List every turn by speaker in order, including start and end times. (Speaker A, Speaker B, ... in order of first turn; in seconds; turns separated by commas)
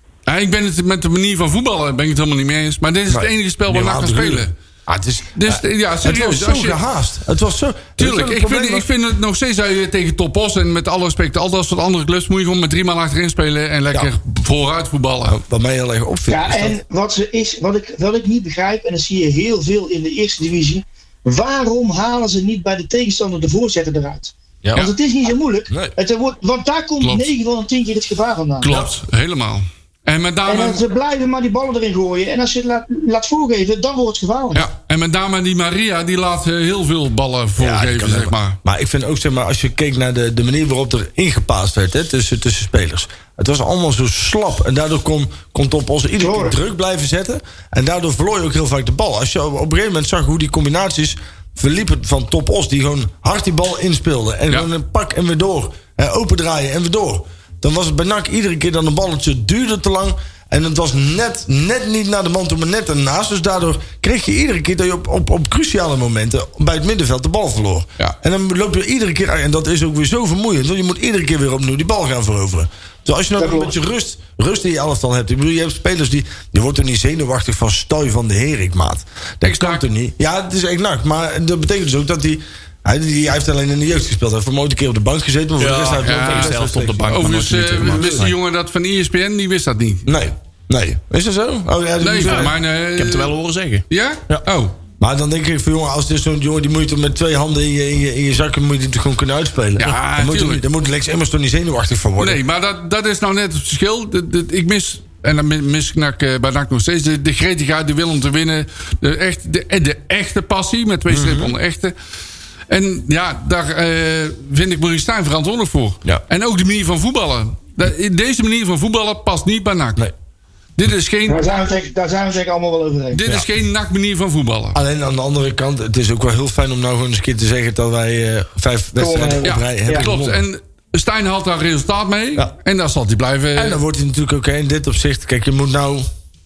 Speaker A: 0.3-4.5, Speaker B: 3.1-8.9, Speaker A: 5.4-6.8, Speaker A: 8.0-15.4, Speaker B: 15.3-16.8, Speaker C: 16.3-28.7, Speaker B: 24.6-24.9, Speaker B: 25.7-25.9, Speaker A: 27.0-27.3, Speaker A: 28.6-30.8, Speaker C: 30.5-34.7, Speaker A: 34.5-38.6, Speaker B: 37.6-88.3, Speaker C: 46.2-46.6, Speaker C: 73.4-73.7, Speaker A: 79.4-79.8, Speaker D: 85.6-88.3, Speaker A: 86.0-90.1, Speaker B: 90.1-92.6, Speaker A: 92.0-93.3, Speaker D: 92.3-94.4, Speaker A: 93.9-94.8, Speaker B: 95.0-102.4, Speaker A: 99.8-100.6, Speaker A: 102.2-111.9, Speaker B: 111.1-111.5, Speaker A: 112.7-120.0, Speaker A: 120.8-121.5, Speaker C: 121.3-123.2, Speaker A: 123.1-124.8, Speaker B: 124.7-130.4, Speaker C: 129.0-130.1, Speaker A: 129.4-133.8, Speaker B: 133.6-136.1